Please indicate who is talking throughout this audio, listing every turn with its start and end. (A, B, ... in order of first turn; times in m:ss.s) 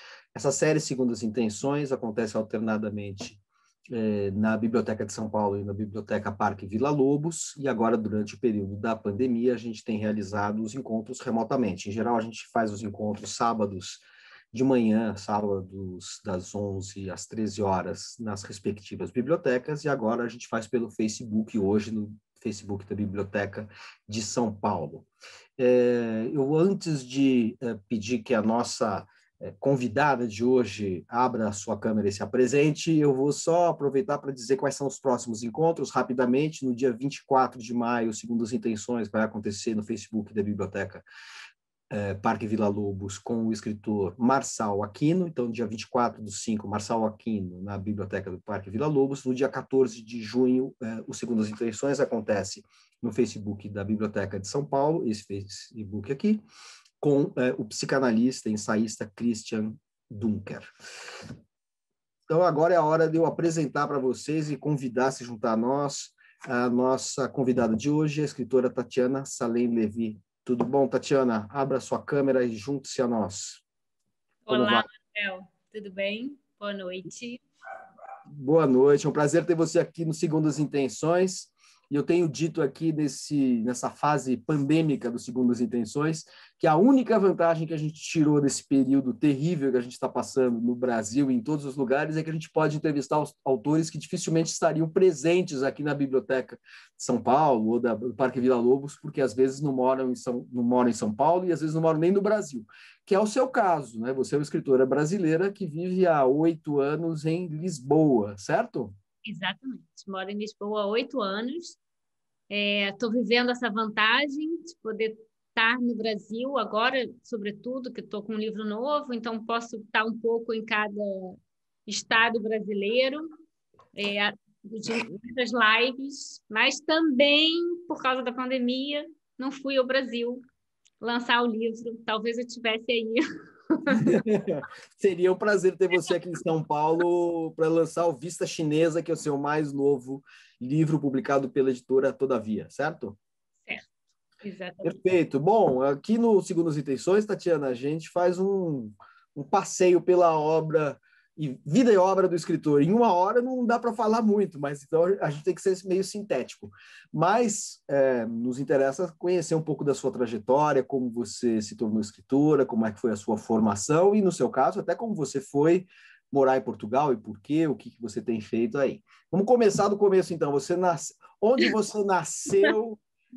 0:00.3-0:25.1 A
0:25.6-0:41.0 A
0:41.9-0:56.4 A
0:57.0-1:00.7 A
1:02.3-1:13.6 A
1:14.5-1:17.4 B
1:14.5-1:14.9 A
1:18.3-1:49.0 A
1:49.2-1:51.8 B
1:52.5-2:03.2 B
2:04.0-2:10.4 B
2:11.0-2:14.2 B
2:13.9-2:23.2 A
2:24.4-2:25.0 B
2:24.8-2:53.0 A